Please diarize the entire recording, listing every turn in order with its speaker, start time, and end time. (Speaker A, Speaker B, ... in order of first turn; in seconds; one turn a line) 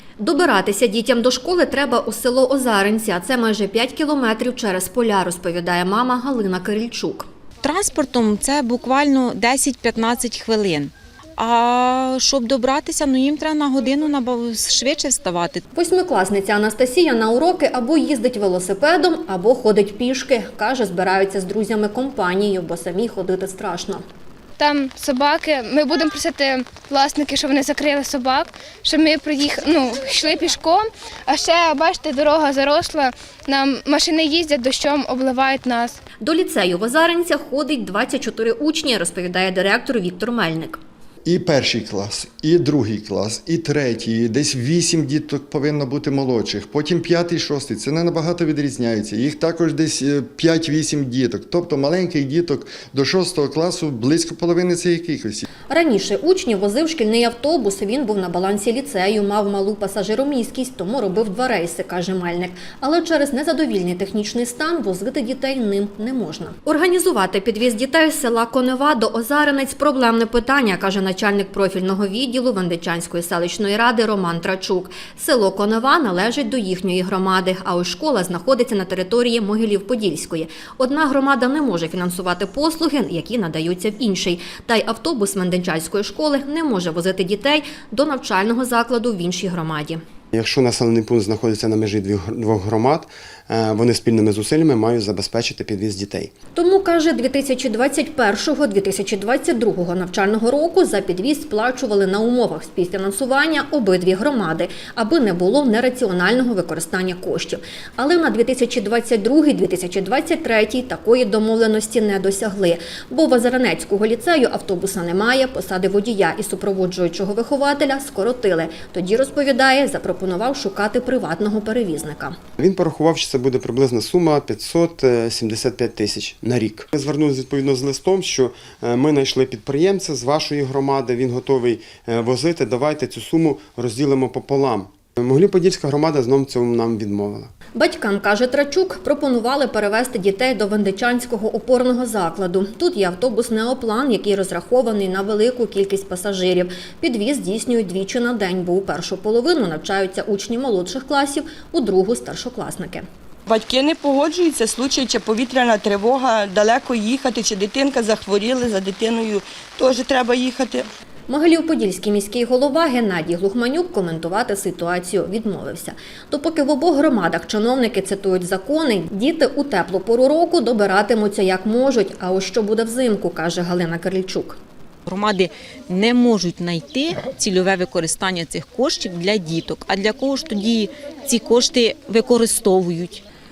Speaker A: 0.2-7.2
Speaker B: 7.6-15.6
Speaker A: 15.8-24.0
Speaker C: 24.6-36.0
Speaker A: 36.2-40.8
Speaker D: 41.2-55.5
Speaker A: 55.7-90.0
Speaker E: 90.3-96.3
Speaker A: 96.5-122.4
Speaker E: 122.6-137.5
Speaker A: 137.8-153.1
Speaker F: 153.5-160.9
Speaker A: 161.3-174.6
Speaker B: 175.1-183.2